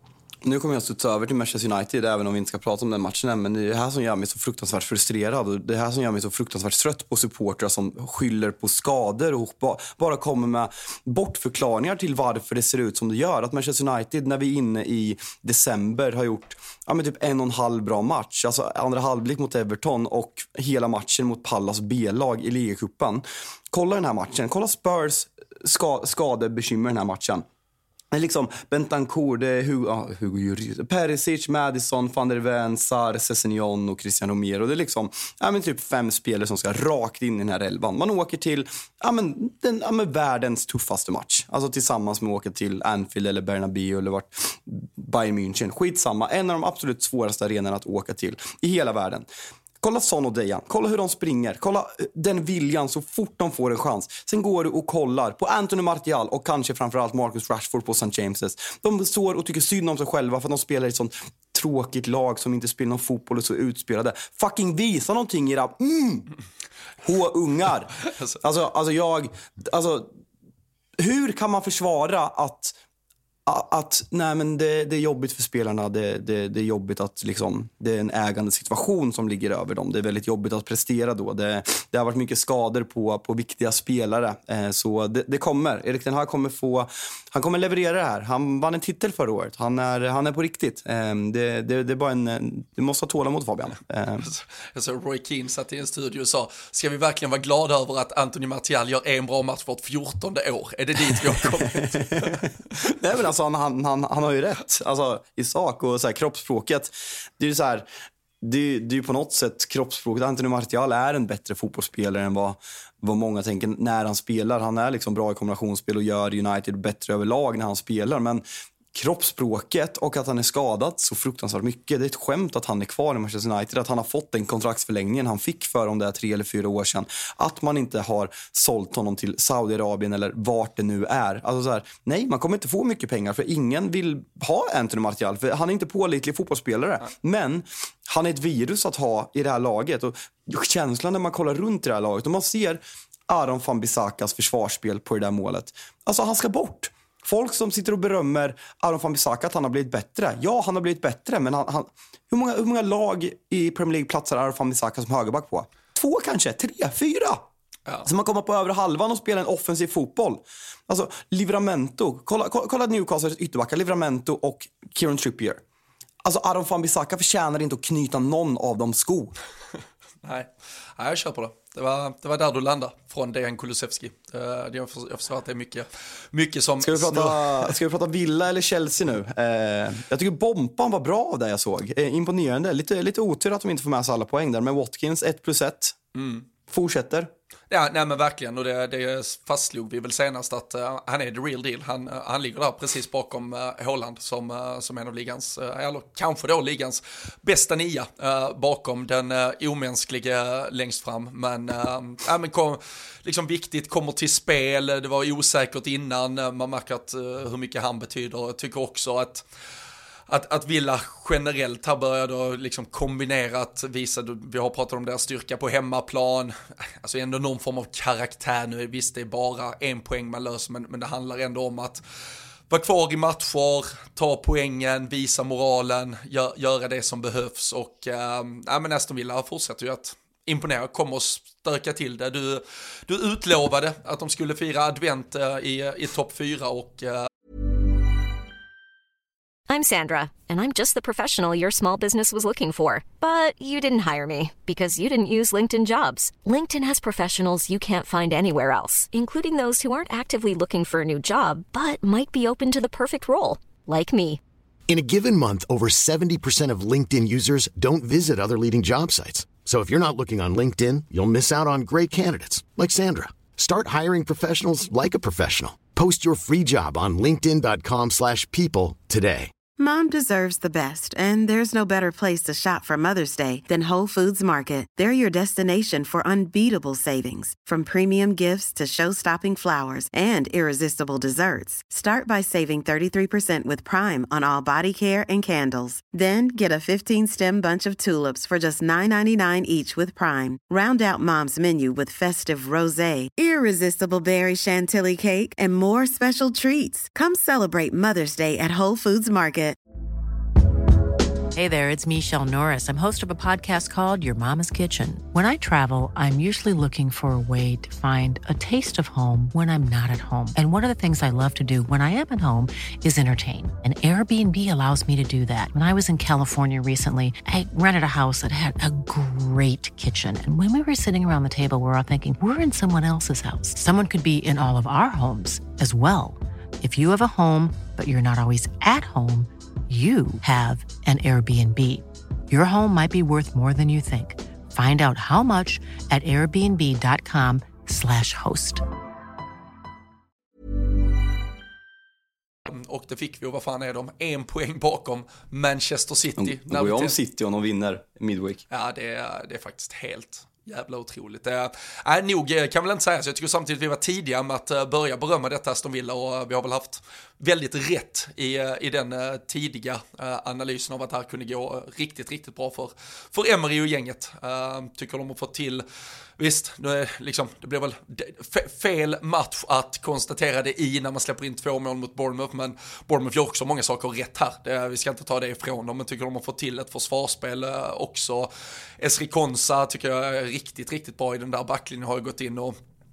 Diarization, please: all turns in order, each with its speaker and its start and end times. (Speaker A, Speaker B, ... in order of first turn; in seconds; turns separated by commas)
Speaker A: 0.4-27.4, Speaker A: 28.1-49.3, Speaker A: 49.8-66.3, Speaker A: 67.0-70.1, Speaker A: 71.0-72.8, Speaker A: 73.5-94.3, Speaker B: 94.2-102.5, Speaker A: 101.1-107.9, Speaker A: 108.4-157.4, Speaker A: 158.1-165.6, Speaker A: 166.2-169.4, Speaker B: 170.2-177.8, Speaker A: 176.8-186.0, Speaker B: 186.2-186.5, Speaker A: 186.7-187.3, Speaker B: 187.7-209.4, Speaker B: 210.3-222.0, Speaker B: 222.7-237.3, Speaker C: 239.7-254.4, Speaker D: 254.9-269.5, Speaker E: 269.8-299.8, Speaker F: 301.6-338.9, Speaker B: 342.7-347.2, Speaker A: 346.4-348.6, Speaker B: 348.7-365.8, Speaker B: 366.4-382.8